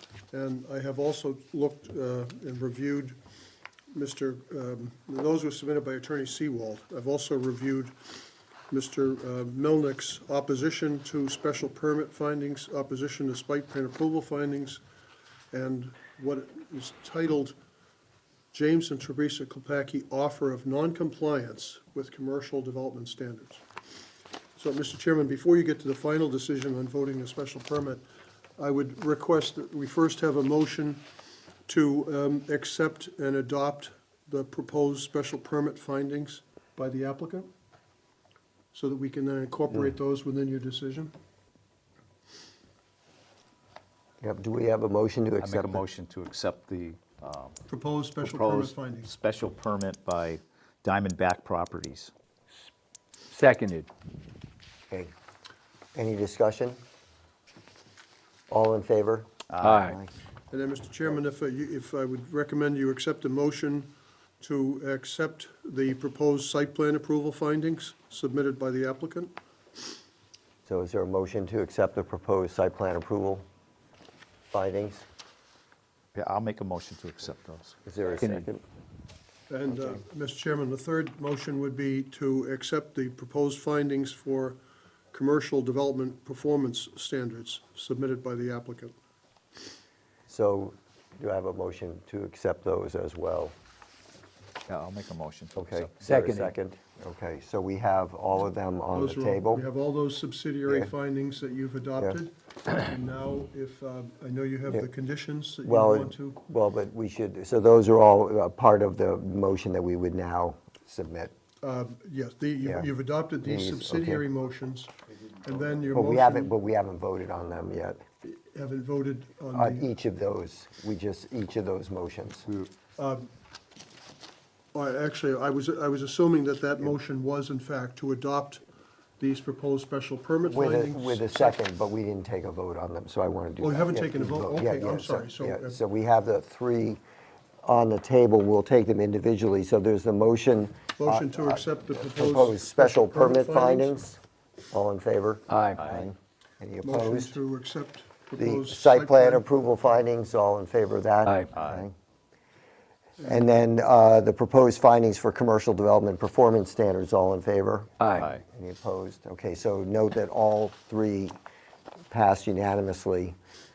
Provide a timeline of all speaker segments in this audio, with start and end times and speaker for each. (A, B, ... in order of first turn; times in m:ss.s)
0:00.3-0:03.2 A
0:03.9-0:14.8 A
0:15.5-0:17.6 A
0:18.5-0:23.6 A
0:24.6-0:28.0 A
0:28.6-0:31.0 A
0:31.7-0:37.5 A
0:38.7-0:41.1 A
0:44.2-0:45.8 B
0:45.4-0:47.6 C
0:47.7-0:49.1 A
0:48.2-0:52.1 C
0:53.3-0:53.9 D
0:56.0-0:56.8 B
0:58.5-0:59.3 B
0:59.5-0:59.9 C
0:59.6-1:00.0 D
1:00.5-1:09.3 A
1:10.7-1:13.4 B
1:14.5-1:15.0 B
1:16.2-1:18.5 C
1:17.9-1:18.6 B
1:19.5-1:24.6 A
1:25.1-1:29.0 A
1:30.3-1:33.5 B
1:34.7-1:36.2 C
1:35.6-1:39.6 B
1:36.0-1:36.5 D
1:38.9-1:46.4 A
1:40.7-1:40.9 B
1:45.6-1:51.3 B
1:51.6-1:54.9 A
1:52.6-1:52.9 B
1:53.4-1:54.2 B
1:55.4-1:56.5 A
1:55.9-1:58.0 B
1:58.2-1:59.9 A
1:59.5-2:02.5 B
2:03.0-2:03.3 A
2:04.7-2:08.6 A
2:09.2-2:11.6 A
2:10.5-2:17.0 B
2:13.6-2:15.8 A
2:17.6-2:24.2 B
2:21.0-2:24.0 A
2:24.7-2:27.4 B
2:25.5-2:25.8 D
2:25.8-2:26.0 C
2:26.8-2:29.6 A
2:28.4-2:31.9 B
2:31.6-2:31.9 C
2:33.2-2:37.9 B
2:38.0-2:38.3 D
2:38.2-2:38.4 C
2:38.5-2:41.4 B
2:42.1-2:43.4 B